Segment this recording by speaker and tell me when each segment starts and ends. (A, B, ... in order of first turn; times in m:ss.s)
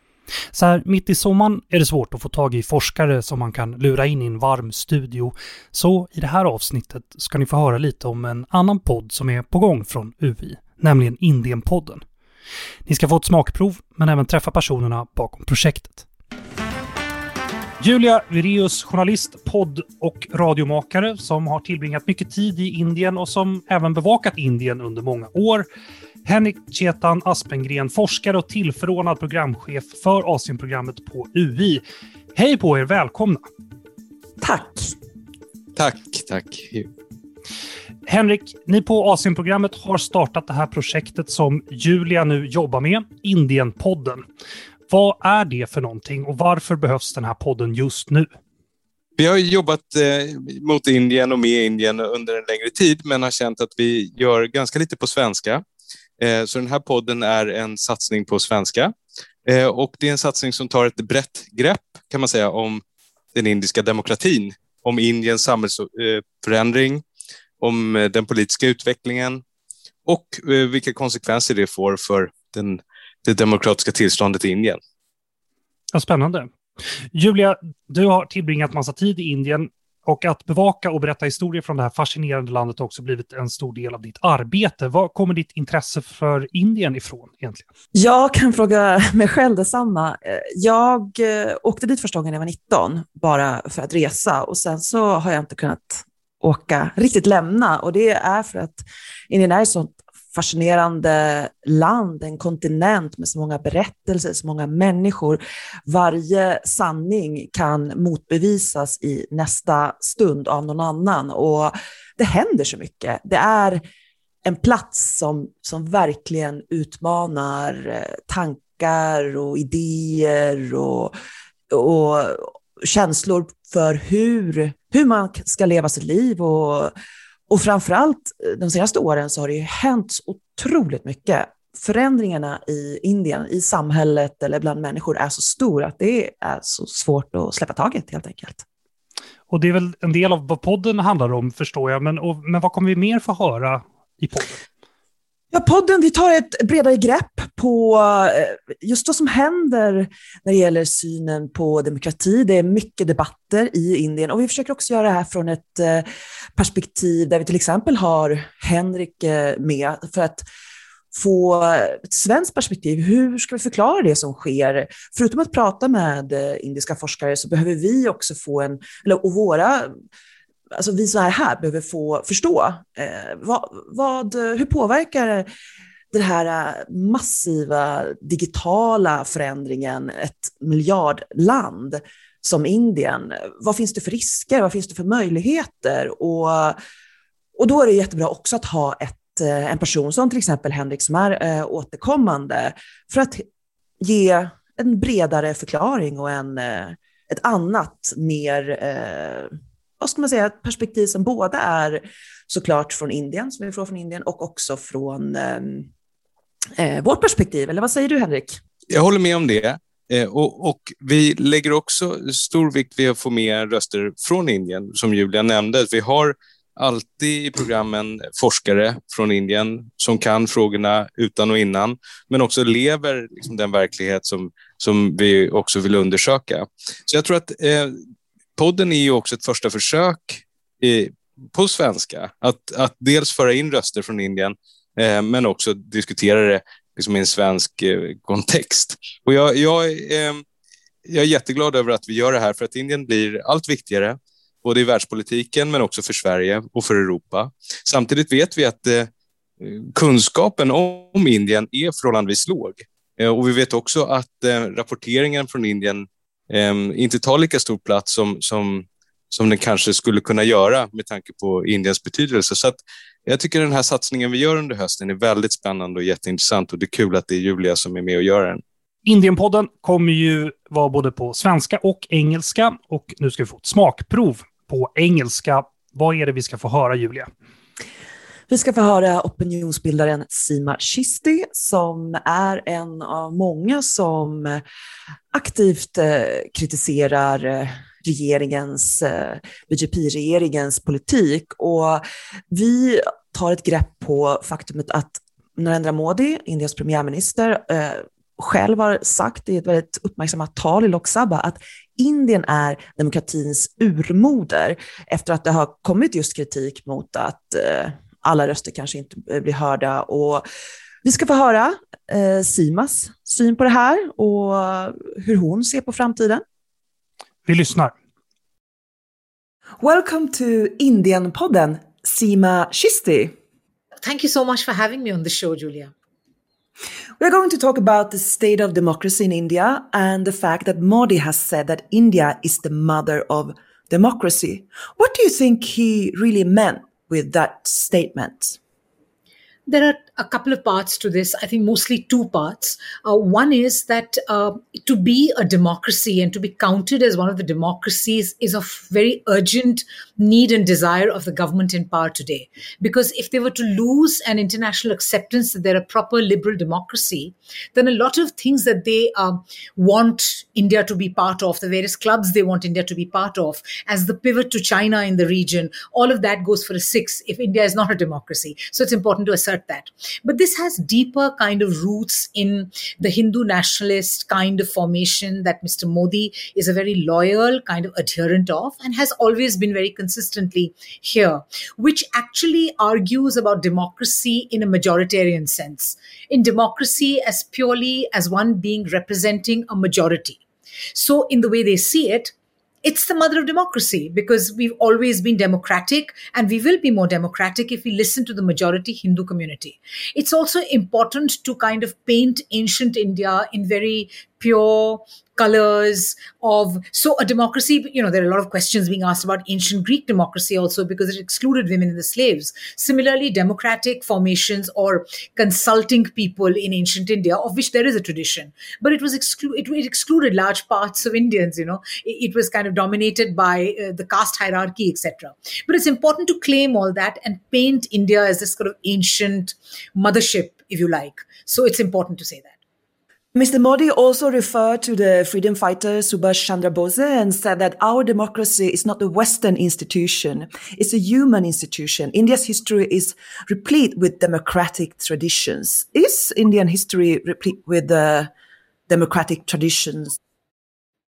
0:00.5-0:12.0 A
0:12.8-0:16.0 A
0:17.8-0:25.7 A
0:26.2-0:31.8 A
0:32.3-0:33.4 A
0:34.4-0:34.9 B
0:35.8-0:36.9 C
0:38.0-0:44.2 A
0:44.9-0:48.3 A
0:49.2-0:55.6 C
0:56.2-0:58.9 C
0:59.4-1:02.8 C
1:03.3-1:07.0 C
1:07.6-1:09.4 C
1:10.0-1:14.8 C
1:15.9-1:16.5 A
1:17.1-1:27.7 A
1:27.9-1:53.8 B
1:54.4-2:01.1 B
2:01.7-2:06.9 B
2:07.5-2:18.6 B
2:19.5-2:24.6 A
2:25.5-2:40.4 B
2:41.1-2:49.9 B
2:50.7-2:55.5 B
2:56.1-3:06.8 B
3:07.6-3:13.4 B
3:14.0-3:25.9 B
3:26.8-3:28.6 B
3:28.9-3:47.9 C
3:48.6-4:00.4 C
4:01.0-4:09.1 C
4:09.6-4:28.6 C
4:29.0-4:37.3 A
4:38.5-4:44.6 B
4:45.3-5:10.4 B
5:11.0-5:16.4 B
5:17.4-5:17.9 A
5:19.8-5:23.3 B
5:24.0-5:25.9 D
5:27.2-5:38.6 B
5:39.7-6:30.4 D
6:30.9-7:12.5 D
7:13.3-7:28.3 B
7:28.9-7:30.2 B